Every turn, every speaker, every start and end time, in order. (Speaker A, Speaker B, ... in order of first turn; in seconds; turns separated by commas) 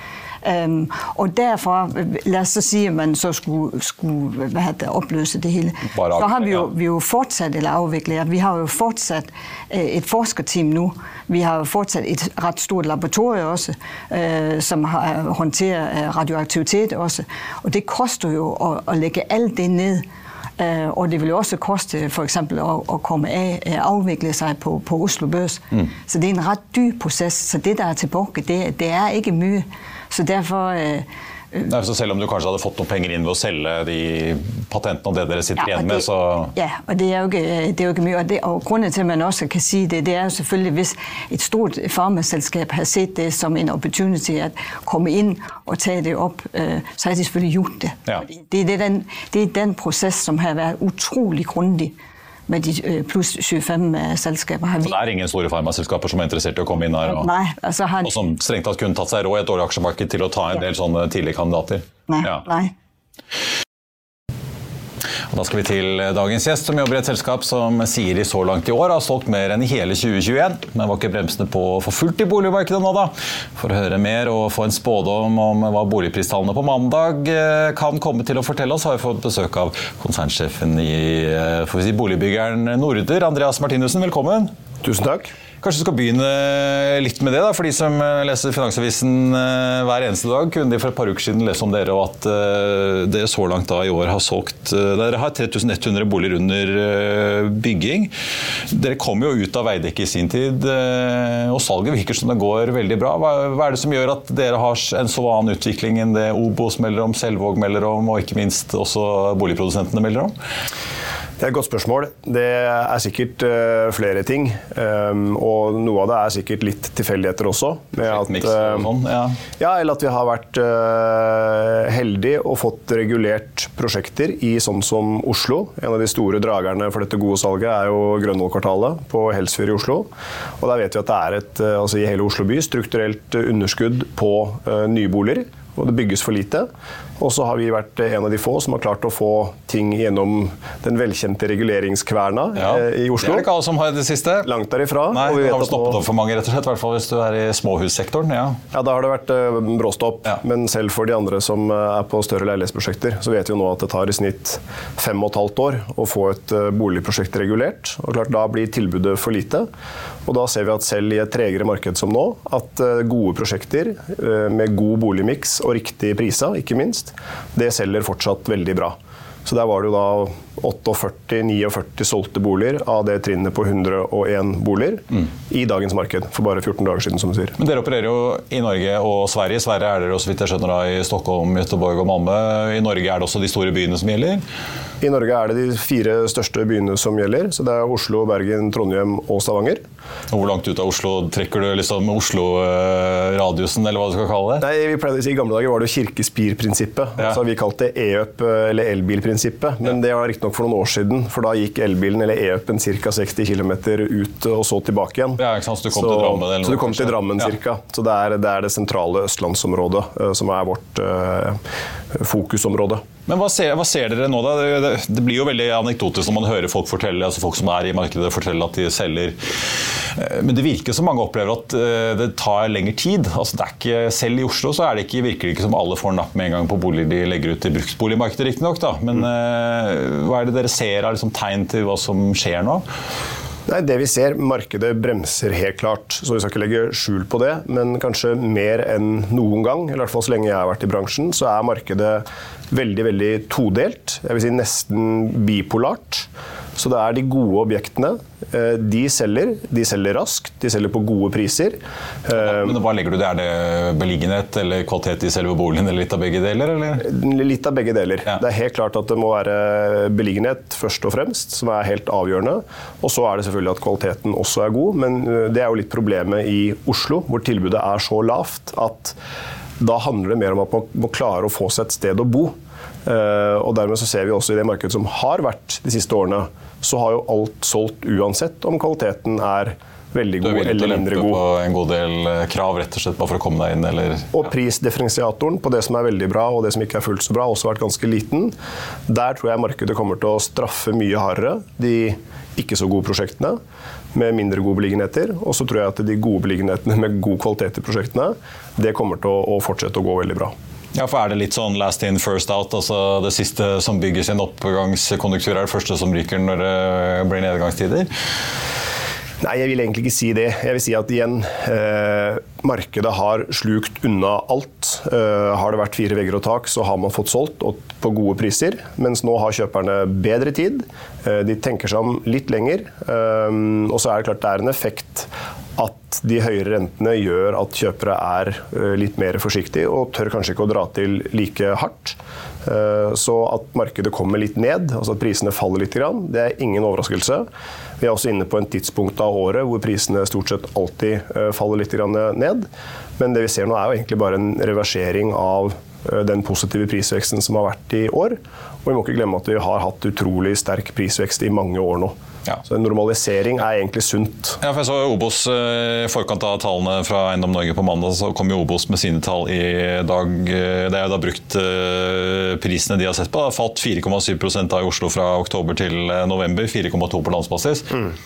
Speaker A: 0.4-20.0, Speaker B: 5.9-6.7, Speaker A: 20.6-31.7, Speaker B: 31.7-36.5, Speaker A: 35.6-51.9, Speaker A: 52.5-55.0, Speaker B: 54.8-57.3, Speaker A: 57.0-58.2, Speaker B: 58.0-62.4, Speaker A: 62.1-62.7, Speaker B: 65.3-84.5, Speaker C: 84.8-85.3, Speaker B: 85.6-98.1, Speaker B: 98.7-110.3, Speaker C: 111.4-118.9, Speaker B: 118.0-119.4, Speaker C: 119.6-130.1, Speaker C: 130.6-136.7, Speaker C: 137.2-143.5, Speaker B: 142.6-144.5, Speaker C: 144.4-146.0, Speaker B: 145.1-148.6, Speaker C: 148.7-159.7, Speaker C: 160.2-177.6, Speaker B: 177.6-184.4, Speaker C: 185.0-189.8, Speaker B: 190.3-194.6, Speaker C: 194.6-211.6, Speaker B: 205.4-207.5, Speaker C: 212.1-213.0, Speaker B: 213.3-232.8, Speaker C: 233.7-252.8, Speaker B: 252.3-257.1, Speaker C: 257.0-269.1, Speaker C: 269.8-281.4, Speaker B: 280.4-284.3, Speaker C: 284.3-288.5, Speaker C: 289.1-293.6, Speaker C: 294.1-300.5, Speaker B: 300.9-308.1, Speaker C: 309.4-337.5, Speaker C: 338.0-354.6, Speaker B: 354.6-368.0